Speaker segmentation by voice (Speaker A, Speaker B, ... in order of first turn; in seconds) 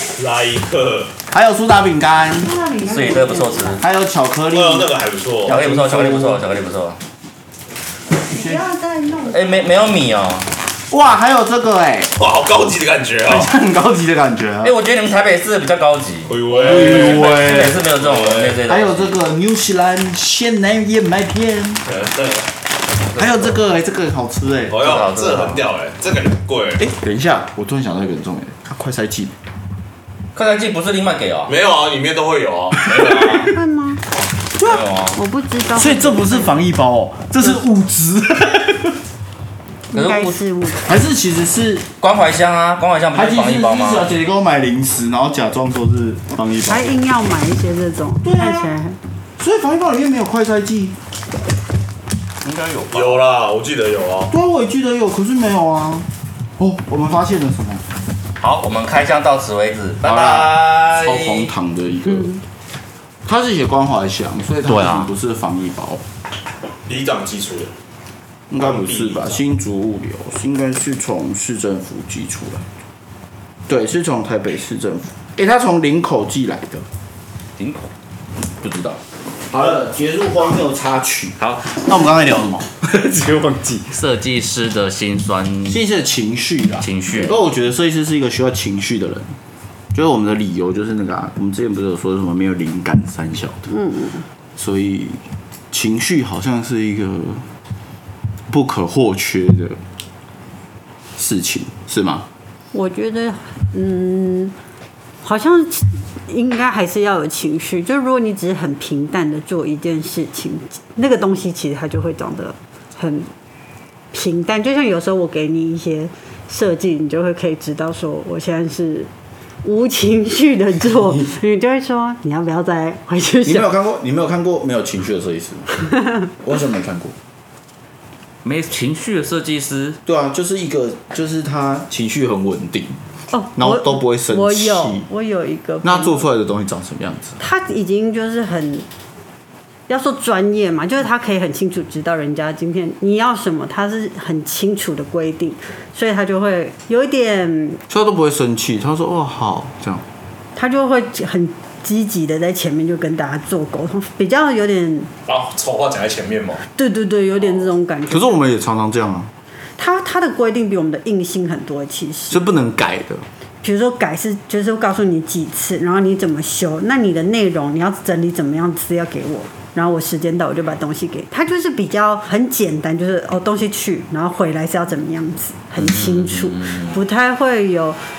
Speaker A: 0.1-1.1, 4.5-5.6, 12.2-13.5, 16.3-18.6, 21.9-22.4, 24.7-26.8, 31.5-33.6, 52.9-54.3, 66.9-67.7, 68.6-69.4, 155.2-156.6
Speaker B: 1.3-2.5, 3.8-6.5, 8.3-8.6, 10.9-12.2, 13.2-14.7, 16.5-17.8, 18.6-21.8, 23.1-24.9, 26.8-29.3, 32.7-33.5, 34.5-34.9, 35.7-39.0, 40.7-41.9, 43.1-46.9, 48.2-48.7, 49.4-51.0, 54.3-56.1, 56.6-57.8, 60.0-62.4, 63.2-66.0, 68.5-72.6, 73.7-76.8, 79.5-84.0, 85.7-89.3, 89.9-93.7, 94.6-97.5, 98.5-99.8, 101.2-102.2, 123.4-125.7, 126.3-127.1, 130.1-133.0, 133.6-135.1, 135.8-137.4, 147.9-150.0, 158.1-159.3, 162.3-163.2
Speaker C: 2.4-3.8, 8.3-9.5, 33.4-34.0, 35.1-36.6, 39.9-40.8, 46.7-49.0, 93.7-94.2, 102.7-104.5, 105.2-113.3, 114.1-119.1, 119.6-123.7, 133.3-136.2, 137.4-138.8, 139.9-147.8, 150.6-155.1, 156.8-158.4, 159.8-162.4, 163.6-178.0
Speaker D: 2.8-3.8, 5.5-7.0, 9.3-10.5, 14.6-19.2, 23.1-23.6, 24.7-25.6, 30.3-31.5, 34.6-35.2, 39.9-40.4, 42.0-44.0, 52.4-53.2, 58.4-61.5, 64.6-65.1, 77.6-77.9, 78.6-79.0, 81.4-81.7, 83.9-85.8, 86.8-87.4, 128.4-130.0, 175.8-176.9